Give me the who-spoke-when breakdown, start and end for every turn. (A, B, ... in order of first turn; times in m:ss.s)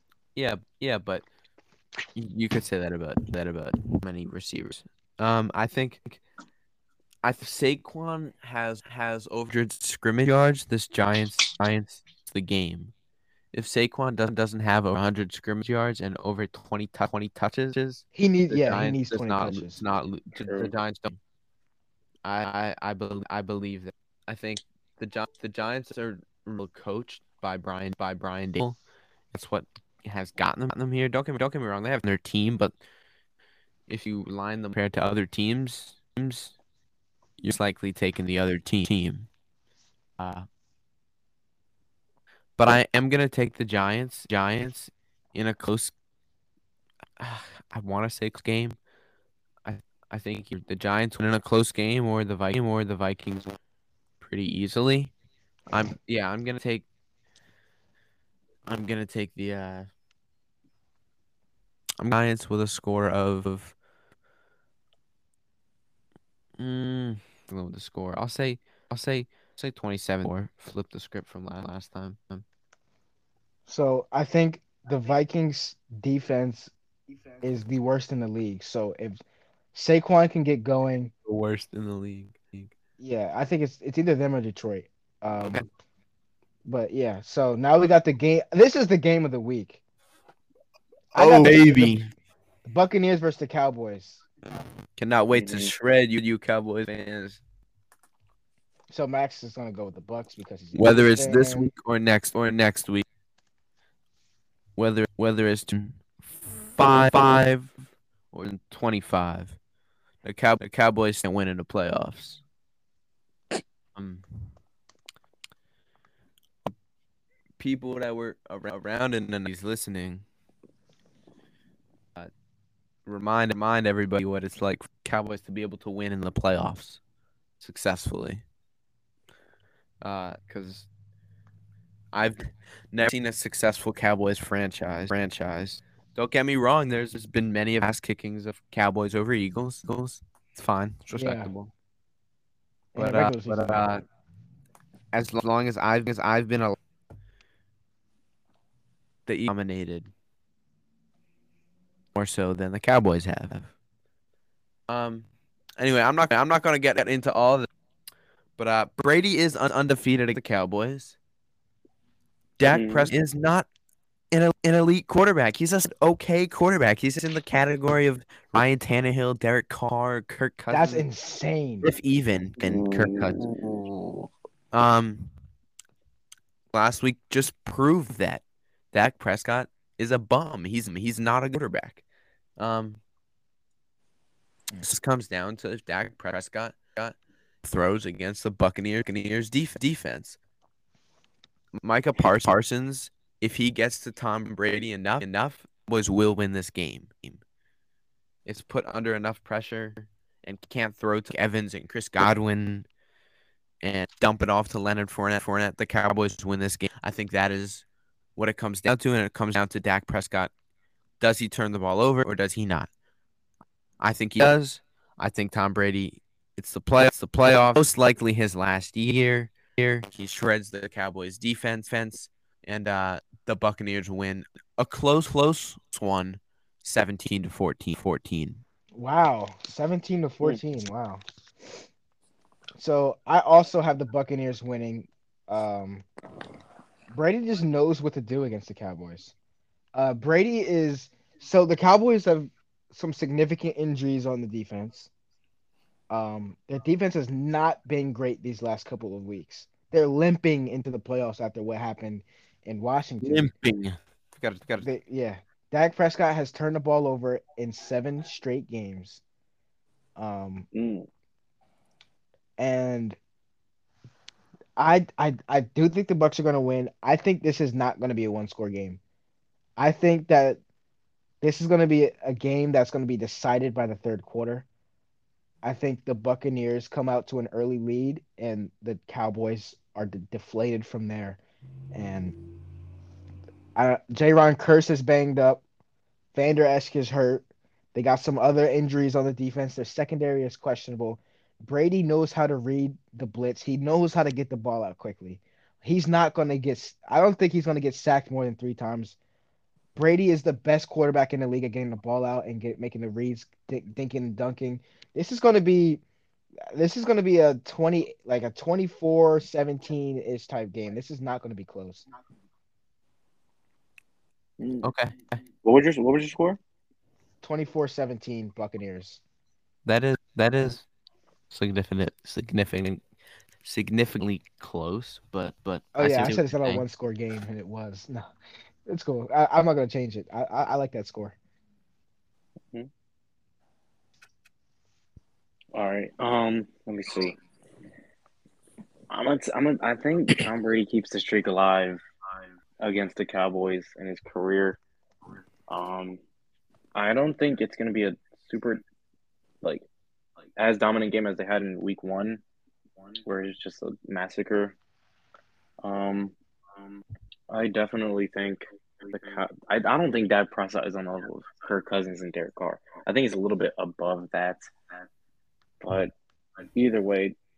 0:00.4-0:01.2 A
0:02.1-0:06.2 A
0:07.2-0:12.9 A
0:13.5-0:21.2 A
0:18.1-0:19.8 B
0:22.2-0:28.8 A
0:29.3-0:32.7 A
0:33.9-0:36.5 A
0:37.4-0:39.3 A
0:40.2-0:40.5 A
0:42.6-0:45.9 A
0:47.2-0:48.8 A
0:49.6-0:53.6 A
0:54.2-0:55.1 A
0:55.7-0:56.8 A
0:58.6-0:59.9 A
1:02.0-1:03.7 A
1:06.6-1:12.4 A
1:13.7-1:16.7 B
1:17.4-1:19.2 B
1:19.7-1:21.1 B
1:21.2-1:22.7 A
1:23.0-1:25.6 B
1:26.6-1:29.8 B
1:31.1-1:32.0 B
1:31.1-1:32.1 A
1:32.6-1:34.2 B
1:35.0-1:37.4 A
1:35.3-1:35.7 C
1:38.9-1:41.7 B
1:40.7-1:43.0 A
1:44.8-1:46.0 A
1:46.7-1:47.8 A
1:48.3-1:49.6 A
1:50.2-1:52.4 A
1:53.9-1:54.4 A
1:57.6-2:00.2 A
2:03.0-2:07.0 A
2:07.6-2:08.4 A
2:10.0-2:10.9 A
2:12.1-2:21.7 A
2:21.1-2:21.5 B
2:22.9-2:23.9 B
2:23.0-2:24.0 A
2:25.1-2:26.8 A
2:29.2-2:30.1 A
2:32.1-2:33.7 A
2:34.9-2:37.7 A
2:38.6-2:41.2 A
2:42.6-2:43.7 A
2:42.7-2:43.1 C
2:44.3-2:51.0 A
2:50.7-2:51.9 B
2:51.8-2:53.4 A
2:52.6-2:54.3 C
2:54.7-2:55.3 A
2:56.7-3:02.0 A
3:02.6-3:03.0 A
3:04.8-3:10.4 A
3:11.8-3:17.4 A
3:18.4-3:22.8 A
3:23.8-3:27.8 A
3:28.4-3:30.5 A
3:31.2-3:32.9 A
3:34.0-3:48.6 A
3:48.9-3:51.2 B
3:52.8-3:56.0 B
3:57.1-3:59.3 B
3:59.9-4:05.1 B
4:06.1-4:13.5 B
4:13.2-4:14.9 A
4:14.8-4:19.2 B
4:20.2-4:20.6 B
4:20.7-4:21.1 C
4:22.6-4:23.2 B
4:24.8-4:29.0 B
4:29.8-4:30.6 B
4:31.4-4:34.6 B
4:35.6-4:41.4 B
4:41.9-4:42.4 B
4:43.8-4:45.6 B
4:46.3-4:59.2 B
4:59.9-5:06.0 B
5:06.7-5:12.0 B
5:14.6-5:14.9 C
5:14.8-5:15.4 A
5:15.6-5:16.6 C
5:17.4-5:19.2 B
5:19.8-5:20.8 A
5:21.5-5:23.0 A
5:23.6-5:26.8 A
5:25.9-5:28.3 B
5:28.9-5:31.3 B
5:35.7-5:37.4 C
5:39.1-5:42.0 C
5:42.8-5:44.8 C
5:45.7-5:46.2 C
5:46.9-5:48.8 C
5:50.6-5:52.4 C
5:53.2-5:54.8 C
5:55.8-5:56.3 C
5:57.5-6:04.6 C
6:05.8-6:06.1 C
6:06.7-6:07.4 C